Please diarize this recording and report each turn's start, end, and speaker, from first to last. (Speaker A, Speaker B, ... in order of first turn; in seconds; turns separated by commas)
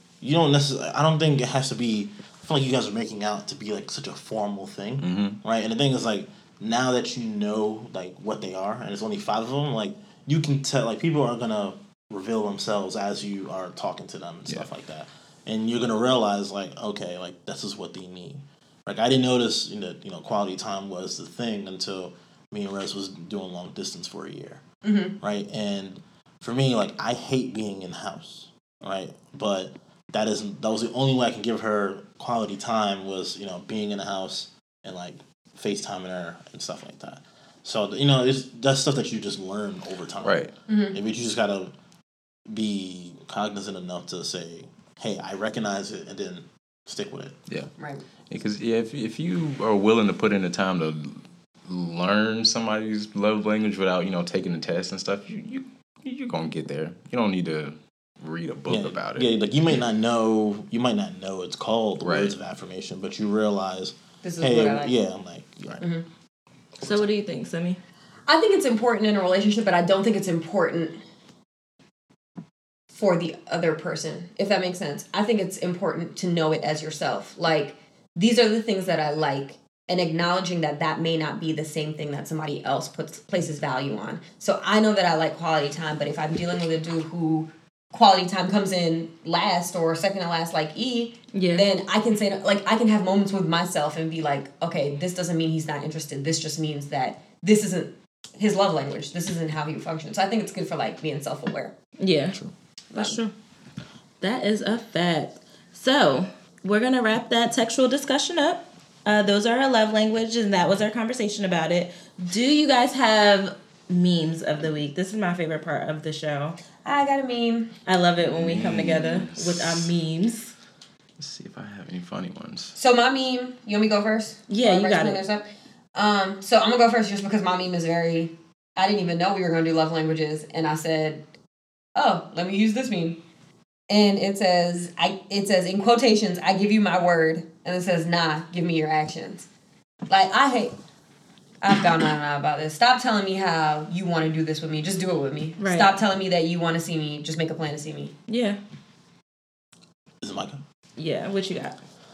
Speaker A: 0.2-24.6, Speaker B: 5.0-5.4, Speaker C: 24.8-25.2, Speaker A: 25.2-40.4, Speaker B: 40.2-40.5, Speaker C: 40.7-41.0, Speaker A: 40.9-41.7, Speaker A: 42.5-47.4, Speaker C: 47.8-48.0, Speaker B: 48.3-59.3, Speaker A: 58.7-65.9, Speaker B: 62.0-62.4, Speaker C: 64.2-64.9, Speaker C: 65.8-66.1, Speaker D: 66.8-67.8, Speaker C: 68.3-70.9, Speaker C: 72.9-101.7, Speaker D: 91.3-91.7, Speaker D: 102.0-102.4, Speaker D: 103.0-103.3, Speaker D: 104.2-116.6, Speaker C: 116.8-117.7, Speaker D: 117.9-120.5, Speaker B: 118.2-119.9, Speaker B: 121.2-122.8, Speaker C: 122.8-131.2, Speaker D: 124.5-125.2, Speaker C: 131.9-133.2, Speaker C: 133.9-139.5, Speaker C: 140.1-140.7, Speaker C: 141.6-148.1, Speaker D: 145.6-146.0, Speaker D: 148.3-148.6, Speaker A: 150.2-150.6, Speaker D: 151.0-151.8